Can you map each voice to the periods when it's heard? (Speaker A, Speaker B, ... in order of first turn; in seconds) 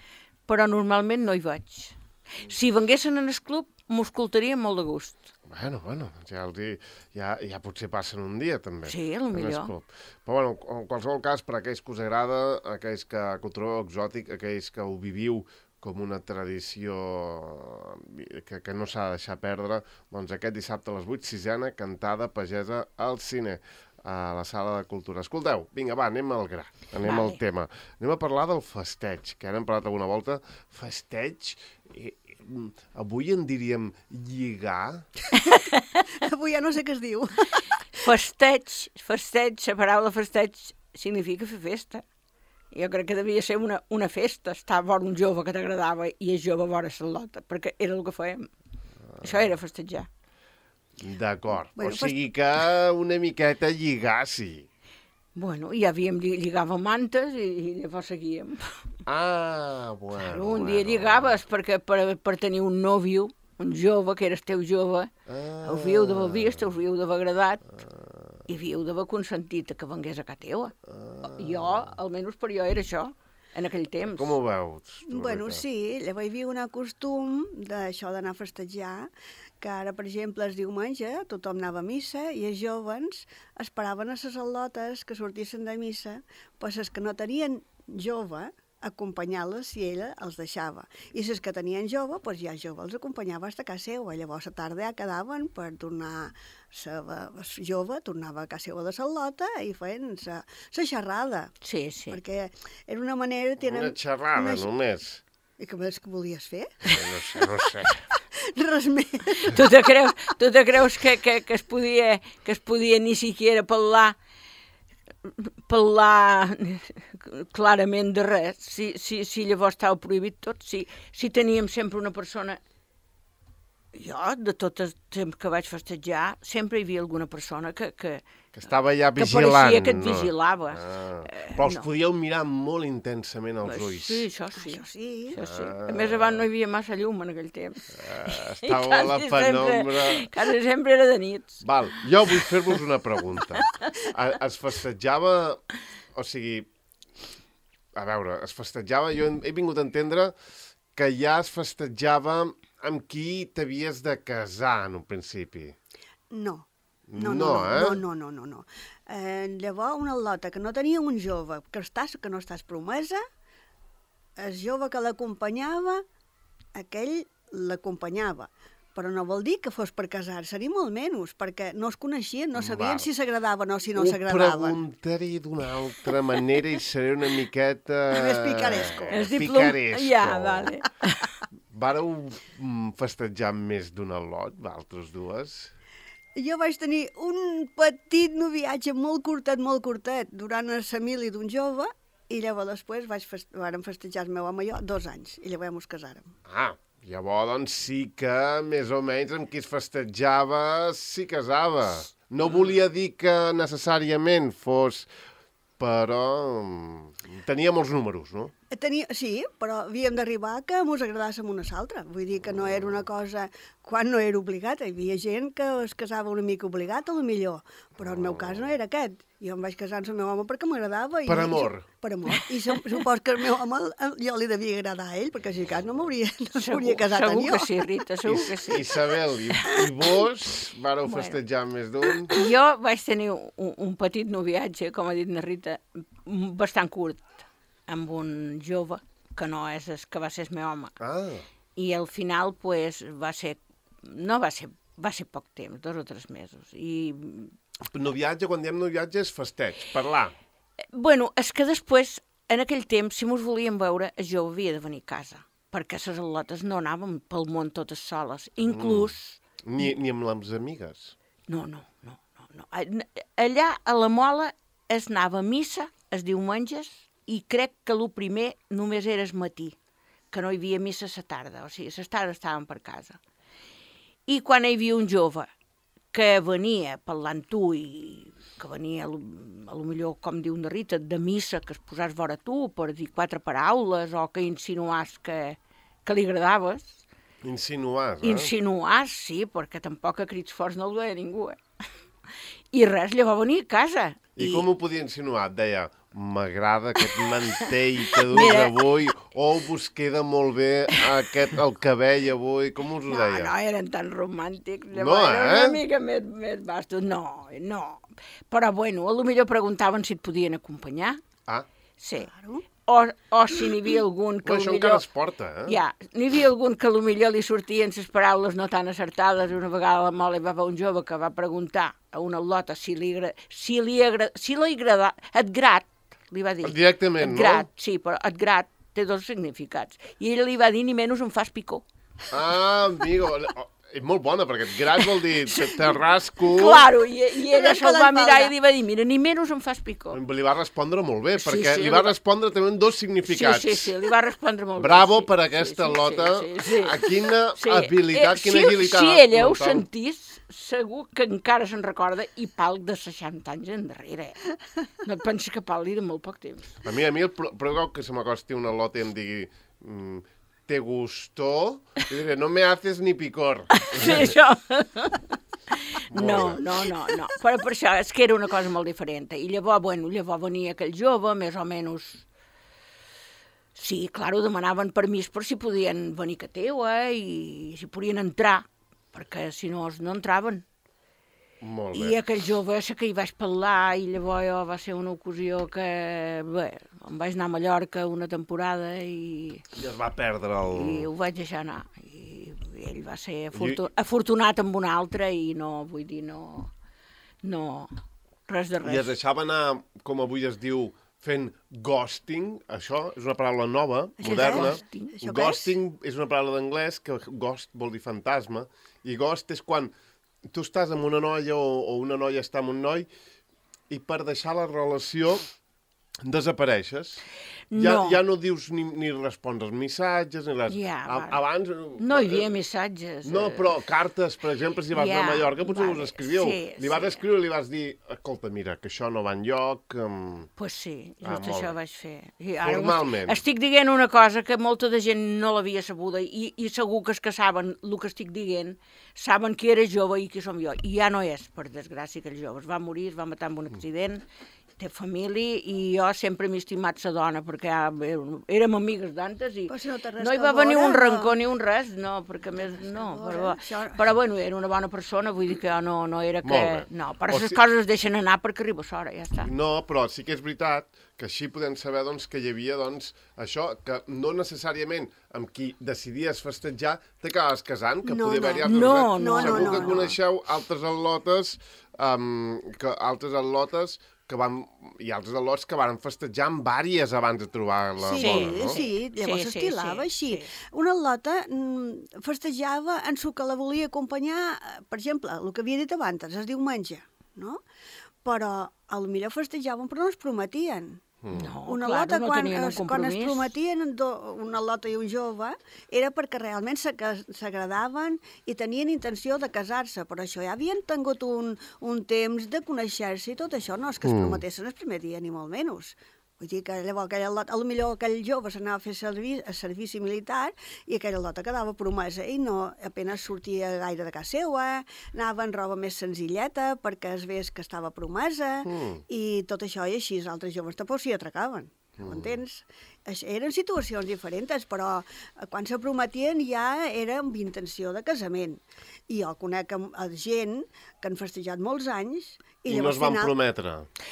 Speaker A: 0.5-5.3, 8.8-9.7, 27.0-27.4, 35.4-36.0, 38.0-42.0, 42.7-48.5, 49.2-50.1, 55.4-58.7, 60.1-65.1, 65.6-67.6, 68.5-70.7, 71.2-74.3, 101.6-102.2, 109.4-114.2, 115.3-122.6, 123.9-128.2, 129.2-131.9, 133.6-141.6, 143.6-143.9, 179.1-181.3, 226.5-229.0, 229.5-229.8, 231.1-231.3, 232.3-240.9, 241.8-247.5, 250.9-259.9, 261.5-269.8, 270.3-273.2, 274.3-275.5, 276.1-287.0, 288.2-291.6, 292.7-294.6, 297.1-298.9, 303.1-311.2, 312.0-312.3, 312.9-315.0, 315.6-331.8, 335.0-340.2, 341.4-342.1, 343.3-354.4, 355.0-356.8, 363.7-372.2, 373.7-380.6, 381.9-389.6, 390.7-396.7, 397.4-397.9, 398.5-399.1, 404.2-405.2, 417.7-418.2, 420.7-421.4, 422.0-423.7, 424.9-427.2, 430.6-444.2, 444.8-459.5, 468.6-470.1, 478.1-480.5, 491.3-493.5
Speaker B: 5.5-35.1, 49.1-49.5, 51.0-54.7, 59.1-61.4, 65.3-66.8, 67.7-68.4, 70.8-71.9, 74.1-75.6, 103.6-105.2, 106.9-108.0, 128.6-134.2, 135.4-136.4, 137.9-140.3, 141.6-145.6, 146.1-146.7, 147.9-150.3, 150.9-155.7, 157.1-158.0, 172.5-173.1, 173.9-180.8, 181.7-185.7, 196.4-205.1, 205.8-208.5, 212.5-212.9, 218.0-218.7, 221.2-221.9, 228.2-232.4, 241.0-241.4, 247.9-250.3, 258.6-259.1, 259.6-261.1, 287.4-288.5, 294.4-303.5, 304.9-305.8, 314.4-315.8, 326.6-327.7, 332.3-336.9, 340.1-343.9, 344.8-349.9, 356.8-364.3, 366.1-366.6, 381.6-382.2, 389.7-391.1, 393.5-393.8, 398.8-409.9, 410.5-413.1, 413.9-415.4, 416.2-417.2, 417.7-422.5, 423.2-430.5, 431.2-431.7, 432.6-433.4, 456.4-457.6, 459.4-478.8, 491.2-491.5, 504.0-504.4, 518.6-519.0, 522.0-522.4, 532.7-533.9
Speaker C: 36.1-37.8, 51.8-52.2, 75.1-101.5, 102.1-104.7, 105.6-107.7, 108.4-109.7, 134.6-135.4, 156.3-163.2, 164.4-166.0, 166.7-174.8, 178.1-179.2, 186.3-196.3, 208.7-227.7, 312.2-312.6, 337.4-338.5, 404.2-405.7, 449.7-451.4, 452.9-454.0, 468.0-470.1, 478.0-487.6, 488.2-491.0, 491.6-533.3